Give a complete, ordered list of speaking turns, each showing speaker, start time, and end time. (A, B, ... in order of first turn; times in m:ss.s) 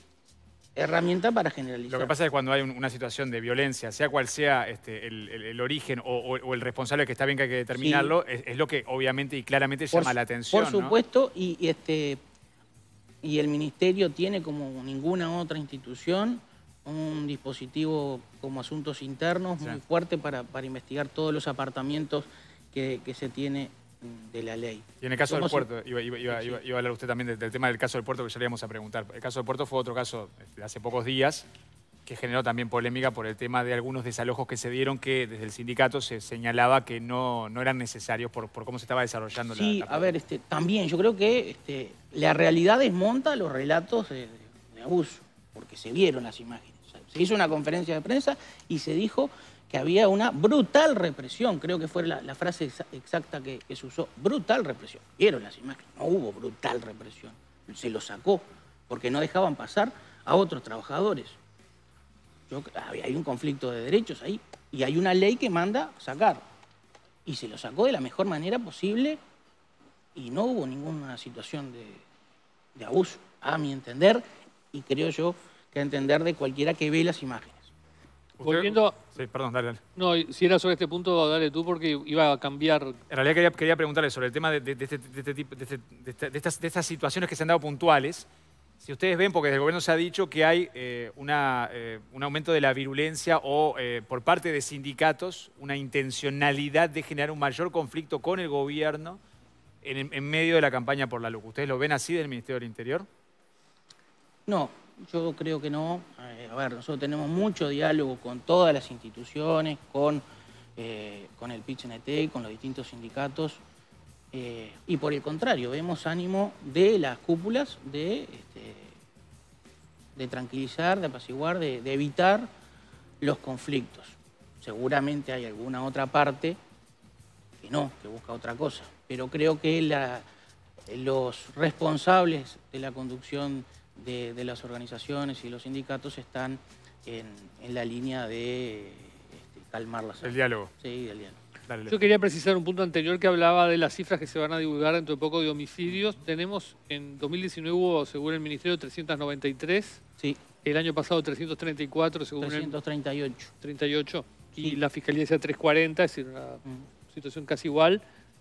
0:00.8-0:02.2 A
0:01.9-0:11.0 B
0:07.7-0:08.2 A
0:09.9-0:12.2 A
0:13.2-0:25.7 A
0:25.0-0:31.5 B
0:26.3-0:26.6 A
0:32.1-0:40.1 B
0:39.5-1:01.4 A
1:02.5-1:06.4 A
1:07.2-1:09.2 A
1:10.2-1:12.0 A
1:12.8-1:17.7 A
1:18.4-1:19.8 B
1:18.4-1:19.0 C
1:20.0-1:23.0 C
1:23.1-1:28.3 B
1:28.8-1:39.2 B
1:39.8-1:43.1 B
1:44.5-1:50.2 A
1:50.8-1:53.6 A
1:54.3-1:59.0 A
2:00.2-2:02.5 A
2:03.2-2:06.6 A
2:07.6-2:10.2 A
2:10.9-2:21.4 A
2:20.2-2:20.7 B
2:21.7-2:22.0 B
2:21.9-2:30.0 C
2:30.6-2:32.8 C
2:32.4-2:33.5 A
2:33.6-2:38.0 C